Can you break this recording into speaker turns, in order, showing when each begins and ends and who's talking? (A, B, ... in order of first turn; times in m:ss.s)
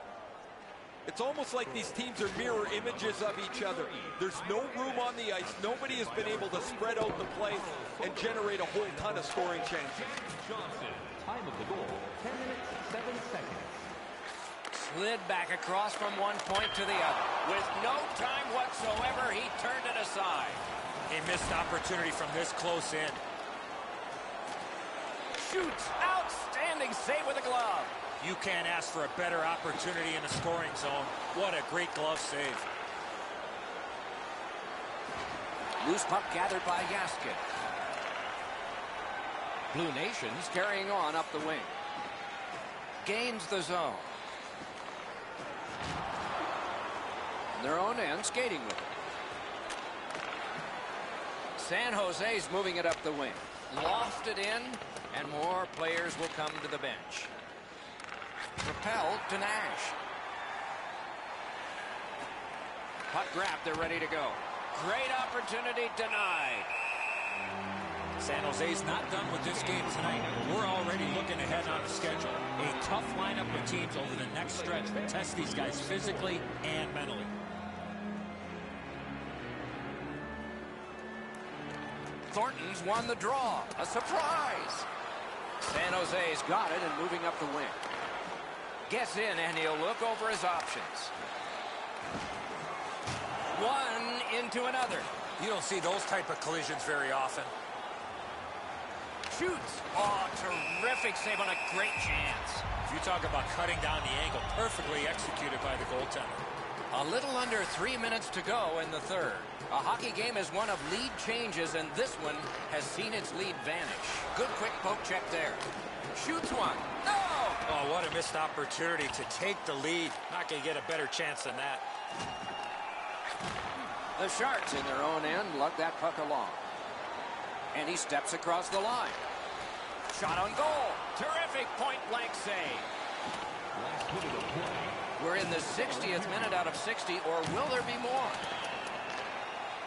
0:01.1-0:10.1 A
0:02.4-0:13.9 B
0:14.7-0:20.6 C
0:21.1-0:23.2 D
0:25.4-0:28.0 C
0:28.2-0:32.7 D
0:35.8-0:37.4 C
0:39.7-0:41.8 C
0:43.0-0:44.2 C
0:47.5-0:48.9 C
0:51.6-0:57.3 C
0:58.6-1:00.0 C
1:03.1-1:06.7 C
1:08.2-1:17.3 D
1:09.1-1:12.1 B
1:14.0-1:16.4 B
1:22.3-1:24.9 C
1:25.6-1:27.8 C
1:28.9-1:31.1 C
1:33.5-1:35.1 C
1:35.4-1:37.5 D
1:39.3-1:42.7 C
1:42.8-1:46.5 D
1:46.9-1:57.6 C
1:57.7-2:01.8 D
2:04.2-2:06.6 C
2:07.7-2:09.2 C
2:10.1-2:12.9 C
2:13.7-2:15.1 B
2:15.2-2:18.5 C
2:15.6-2:16.7 B